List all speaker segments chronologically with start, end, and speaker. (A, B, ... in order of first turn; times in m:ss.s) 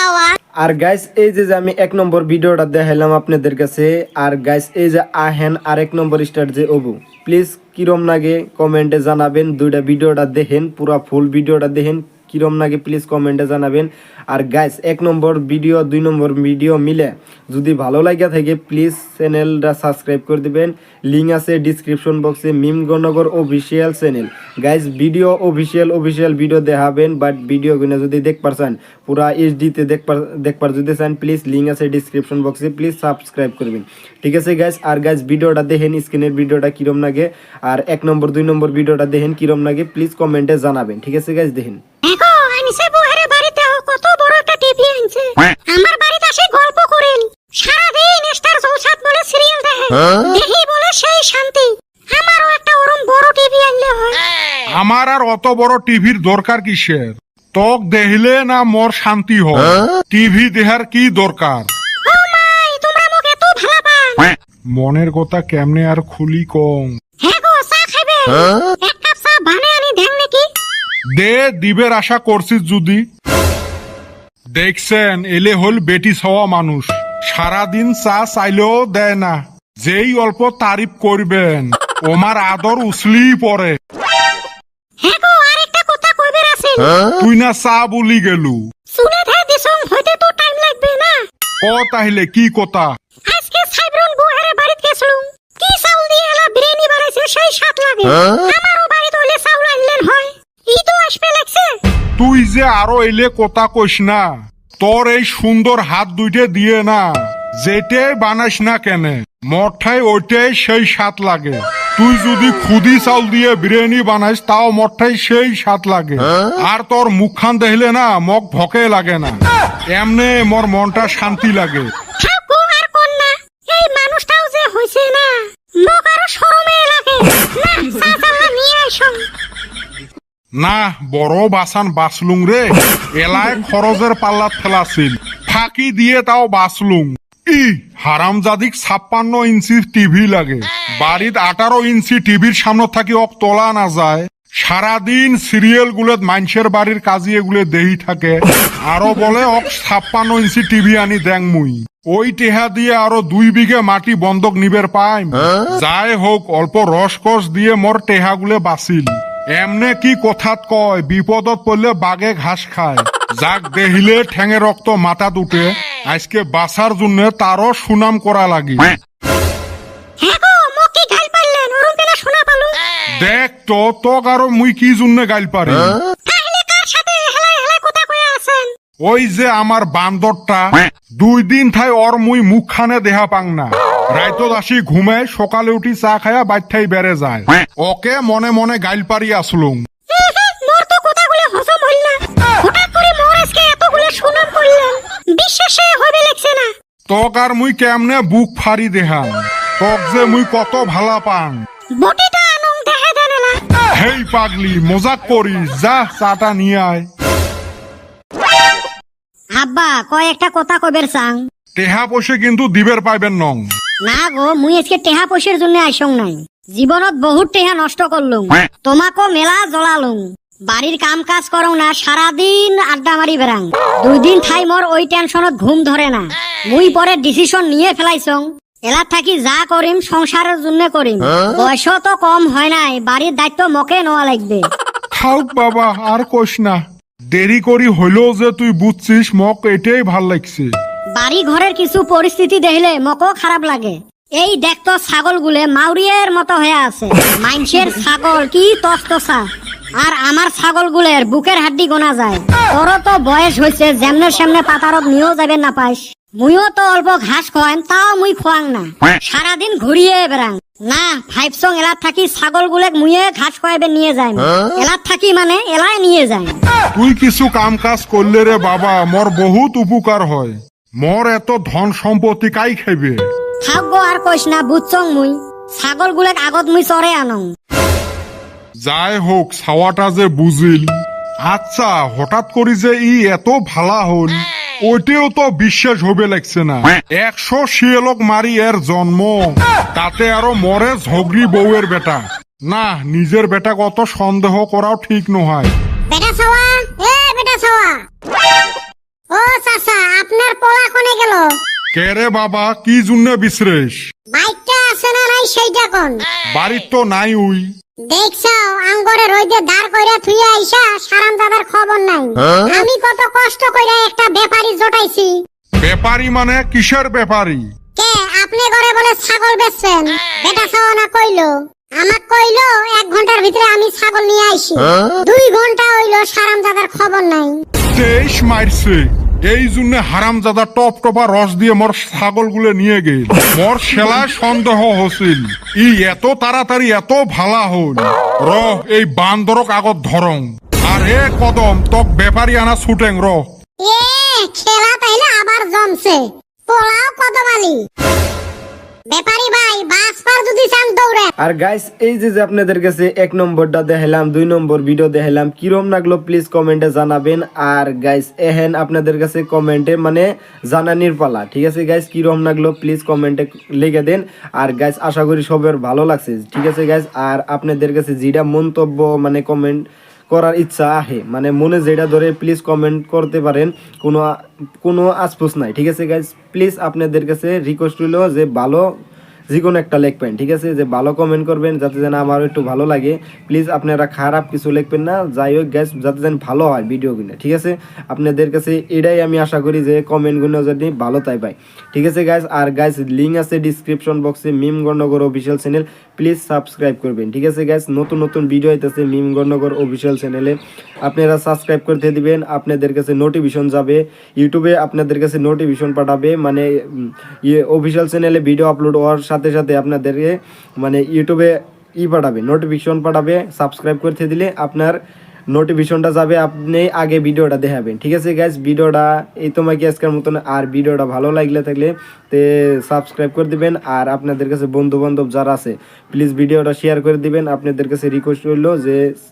0:00.6-0:41.8 A
0:42.0-0:54.2 B
0:54.8-1:01.7 C
1:02.1-1:04.3 B
1:04.7-1:07.0 C
1:07.2-1:10.5 B
1:11.2-1:13.0 C
1:14.6-1:23.8 C
1:25.0-1:26.9 B
1:27.2-1:28.6 C
1:29.0-1:31.2 B
1:31.6-1:32.9 C
1:33.3-1:41.7 B
1:42.2-1:44.3 C
1:44.8-1:59.4 C
1:59.9-2:01.9 C
2:02.2-2:09.2 B
2:10.6-2:49.0 C
2:50.3-2:52.7 D
2:53.2-2:56.0 C
2:57.4-2:58.5 B
2:59.0-3:09.9 C
3:10.1-3:16.7 D
3:17.1-3:21.7 C
3:22.0-3:23.6 D
3:24.0-3:27.1 C
3:29.6-3:31.5 D
3:31.8-3:33.7 C
3:34.0-3:54.7 D
3:55.1-4:00.7 C
4:01.2-4:26.6 D
4:27.0-4:33.2 C
4:33.6-4:37.5 D
4:38.8-4:41.0 C
4:41.5-4:55.7 C
4:56.1-4:58.0 B
4:59.3-5:01.5 B
5:02.0-5:04.1 C
5:04.3-5:06.2 B
5:06.5-5:07.7 C
5:08.1-5:15.3 B
5:15.8-5:17.6 C
5:18.0-5:27.6 B
5:28.0-5:43.4 C
5:43.8-5:47.8 B
5:49.1-5:51.3 B
5:51.4-6:14.3 A
6:14.8-6:18.9 A
6:19.5-6:55.0 A
6:55.5-7:09.2 A